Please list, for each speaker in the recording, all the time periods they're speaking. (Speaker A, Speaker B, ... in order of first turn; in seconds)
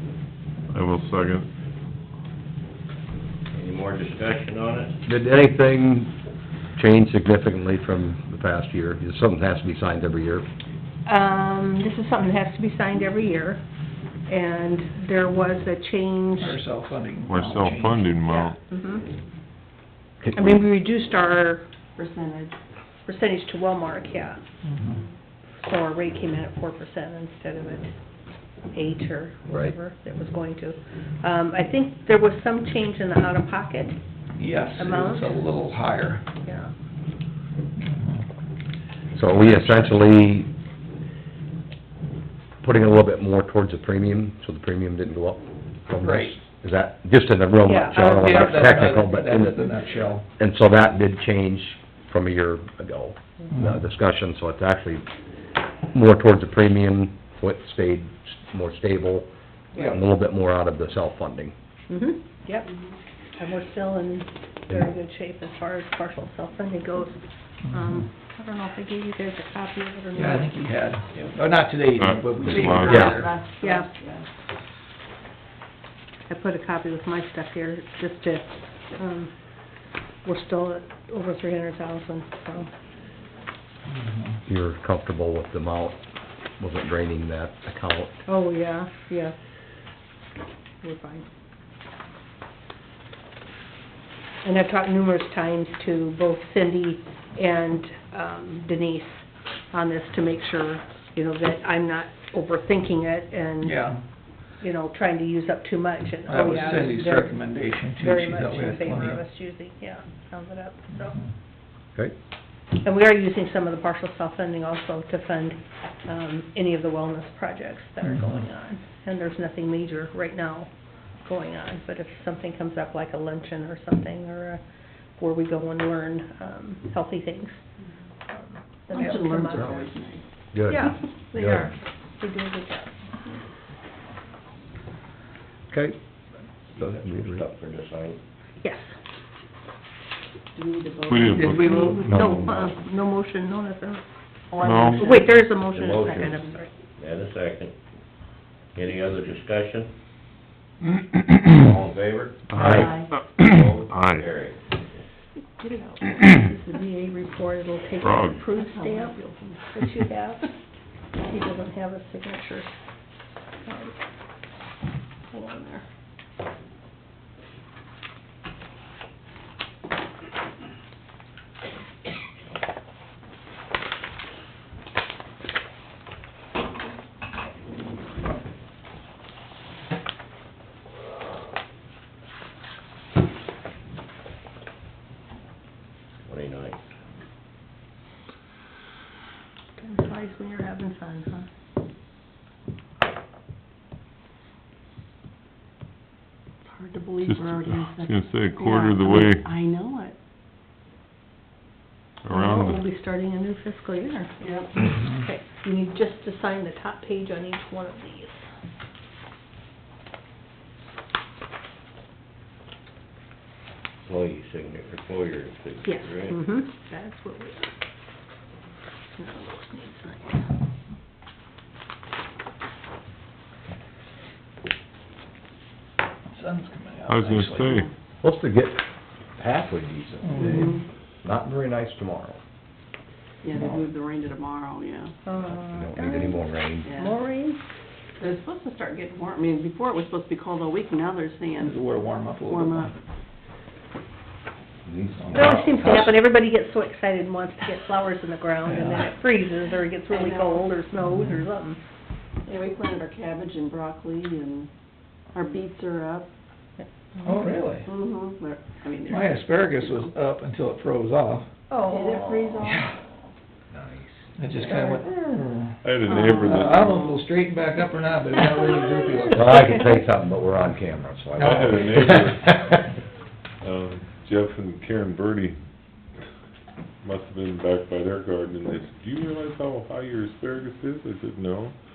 Speaker A: 0.7-1.5, 17.2-18.6, 72.0-73.2, 141.1-141.9, 144.6-145.2, 152.5-154.2, 158.0-158.4, 197.2-199.5, 202.2-202.8, 227.1-227.9, 265.8-267.2, 271.4-272.8, 273.6-275.6, 277.0-281.7
Speaker B: 3.5-5.0, 22.0-22.5, 72.4-74.3, 128.9-130.2, 140.5-142.3, 144.5-147.7, 148.8-149.9, 151.5-153.9, 158.5-159.6, 196.7-200.2, 204.4-204.8, 215.6-216.3, 230.4-230.8, 233.4-235.1, 236.9-237.1, 238.2-242.9, 250.1-250.7, 252.4-254.7, 255.3-256.3, 257.8-260.1, 261.9-262.9, 266.1-267.2
Speaker C: 3.6-4.7, 137.4-138.2, 151.7-152.3, 153.6-154.6, 186.3-186.8, 214.1-215.7
Speaker D: 5.0-6.1, 6.8-10.4, 20.2-20.5, 29.5-29.7, 39.1-40.5, 42.6-49.7, 50.4-55.0, 55.9-61.5, 72.8-73.2, 84.5-86.0, 86.6-88.1, 130.5-131.7, 135.7-135.9, 136.8-137.4, 142.0-142.7, 152.6-152.9, 228.2-228.8, 229.3-232.4, 235.4-236.9, 244.8-246.1, 263.7-264.1, 269.3-272.8
Speaker E: 11.1-13.6, 14.3-16.6, 18.2-19.0, 20.3-21.7, 23.1-24.4, 25.6-27.9, 28.7-34.0, 34.8-35.4, 36.4-36.7, 47.6-49.0, 61.9-62.7, 63.4-70.5, 73.6-73.9, 76.3-79.3, 80.2-82.7, 88.2-89.3, 90.8-91.3, 94.4-103.9, 104.6-111.2, 112.8-120.7, 121.2-124.6, 125.2-127.6, 128.9-129.9, 130.7-133.4, 138.6-139.0, 141.5-144.0, 144.8-146.7, 155.6-160.5, 161.2-162.7, 163.6-164.0, 165.3-165.8, 189.8-191.5, 202.3-208.4, 215.8-217.7, 219.2-220.4, 235.2-237.6, 245.3-251.8, 256.8-257.6, 261.7-262.6, 264.7-265.0
Speaker F: 16.4-18.1, 24.6-25.0, 34.4-36.2, 37.8-38.2, 39.4-39.9, 46.0-46.4, 48.0-50.2, 53.5-53.8, 67.7-68.0, 70.1-73.3, 83.8-84.4, 103.6-104.0, 106.2-109.2, 110.9-111.3, 118.0-118.4, 141.4-141.9, 226.3-227.8, 230.2-230.8, 241.6-242.9, 245.2-245.9, 248.6-249.1, 257.2-257.9, 259.1-261.5, 262.6-262.9, 264.4-269.9, 271.4-271.8